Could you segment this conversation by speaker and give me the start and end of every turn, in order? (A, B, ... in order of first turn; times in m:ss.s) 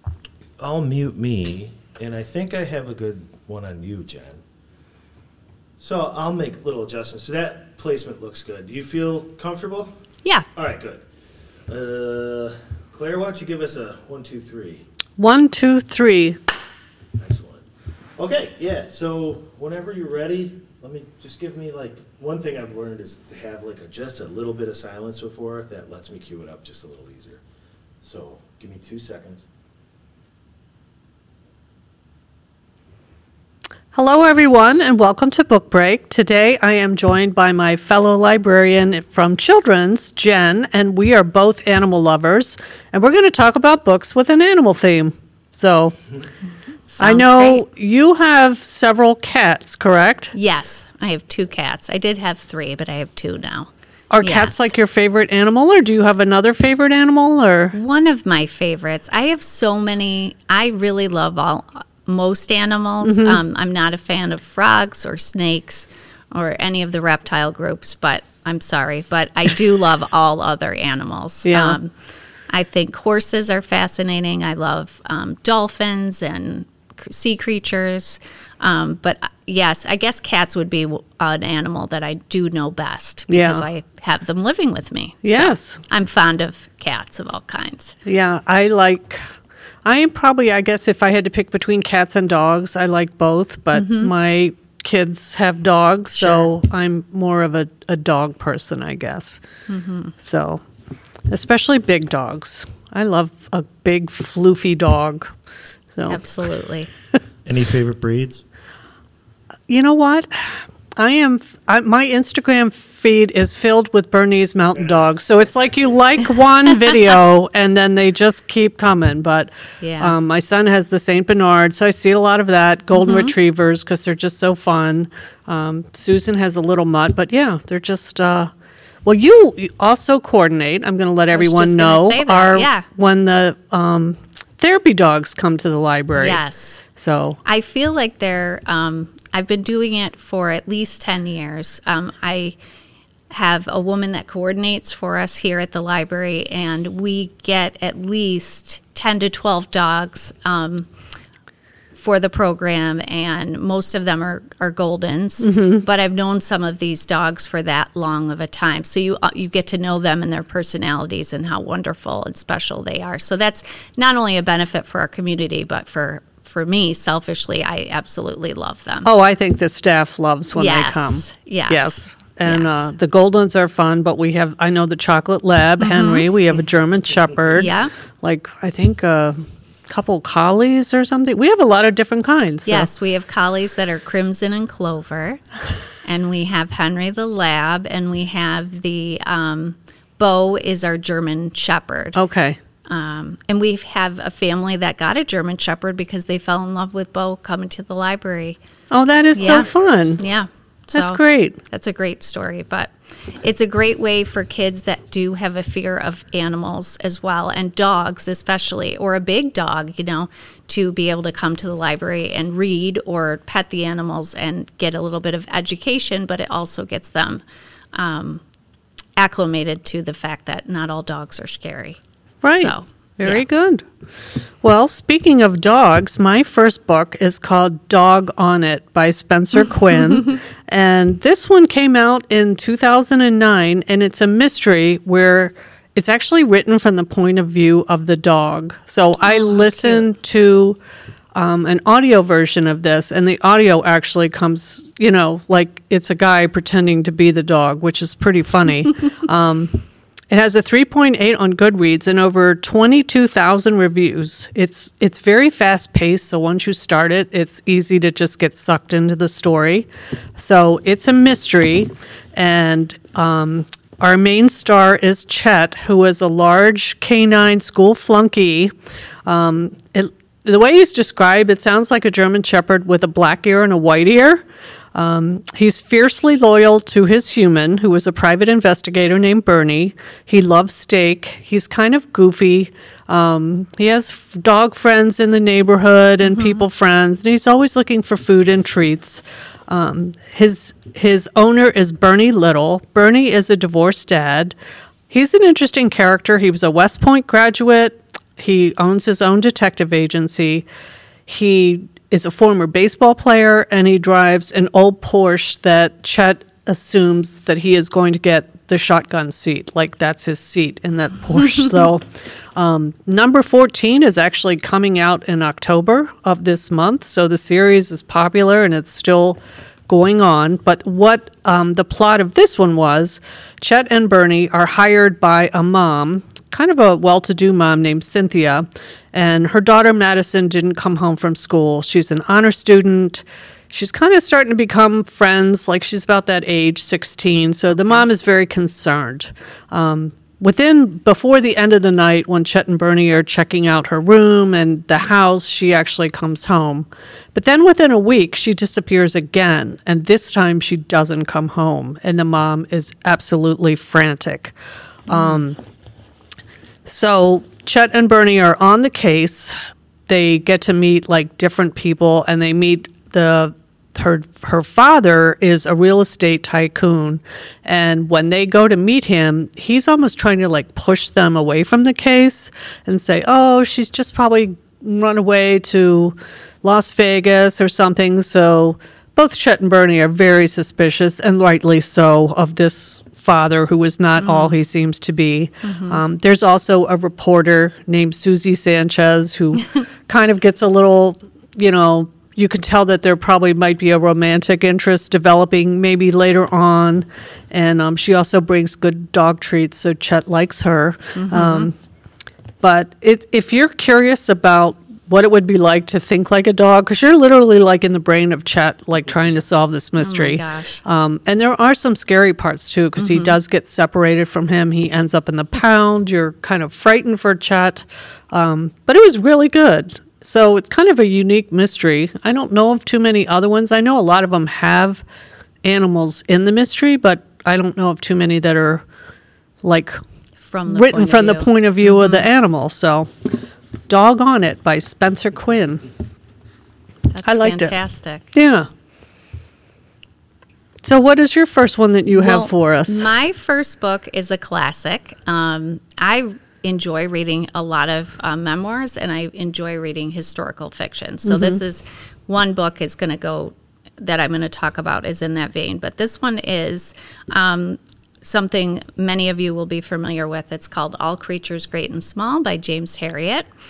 0:00.6-0:04.4 A
0:05.8-0:09.9 A
0:10.5-0:11.0 A
0:11.7-0:14.8 A
0:15.2-0:16.4 B
0:17.2-0:17.6 A
0:18.2-0:27.4 A
0:28.0-0:29.4 A
0:33.9-0:46.0 B
0:46.9-0:47.6 C
0:47.0-0:50.3 B
0:50.3-0:53.7 C
0:54.1-0:57.7 B
0:54.2-0:54.7 C
0:57.7-1:11.9 C
1:03.0-1:03.4 B
1:11.4-1:11.8 B
1:12.5-1:28.0 C
1:23.3-1:23.6 B
1:25.2-1:25.8 B
1:28.0-1:29.2 B
1:29.8-1:39.4 B
1:33.7-1:34.1 C
1:36.1-1:36.5 C
1:39.7-1:40.1 C
1:40.2-1:40.6 B
1:41.3-1:45.3 B
1:45.9-1:46.2 B
1:46.1-1:46.9 C
1:47.4-1:48.4 A
1:49.7-2:08.5 B
1:59.8-2:00.1 C
2:02.9-2:03.3 C
2:09.0-2:16.4 B
2:11.3-2:12.8 C
2:16.2-2:16.8 C
2:17.0-2:17.4 B
2:17.4-2:22.5 C
2:23.3-2:30.9 C
2:31.9-2:49.1 C
2:35.4-2:35.8 B
2:49.0-2:57.7 B
2:50.5-2:52.9 C
2:55.8-2:56.2 C
2:57.5-2:57.9 C
2:58.2-3:02.9 B
3:02.6-3:05.4 C
3:06.0-3:12.2 C
3:12.1-3:12.6 B
3:12.9-3:18.6 C
3:18.9-3:20.2 B
3:19.3-3:37.4 C
3:20.9-3:21.6 B
3:37.9-3:38.4 C
3:39.2-3:42.0 C
3:42.4-3:43.8 B
3:42.5-3:43.4 C
3:44.6-4:00.8 B
3:59.2-4:00.1 C
4:01.3-4:28.7 B
4:29.2-4:54.5 B
4:46.2-4:46.6 C
4:55.1-5:00.6 B
5:01.3-5:54.5 B
5:37.7-5:38.0 C
5:55.1-5:55.6 B
5:55.1-5:55.4 C
5:56.8-5:59.5 B
6:00.1-6:41.7 B
6:24.2-6:24.6 C
6:25.6-6:26.0 C
6:41.1-6:41.7 C
6:42.6-7:05.0 B
6:50.0-6:50.8 C
6:53.0-6:53.4 C
7:05.6-7:08.8 B
7:09.6-7:10.0 B
7:10.4-7:12.2 C
7:10.7-7:13.1 B
7:13.9-7:15.9 B
7:17.1-7:18.3 C
7:17.2-7:17.7 B
7:18.3-7:18.7 B
7:20.8-7:23.1 B
7:22.1-7:43.4 C
7:31.2-7:31.6 B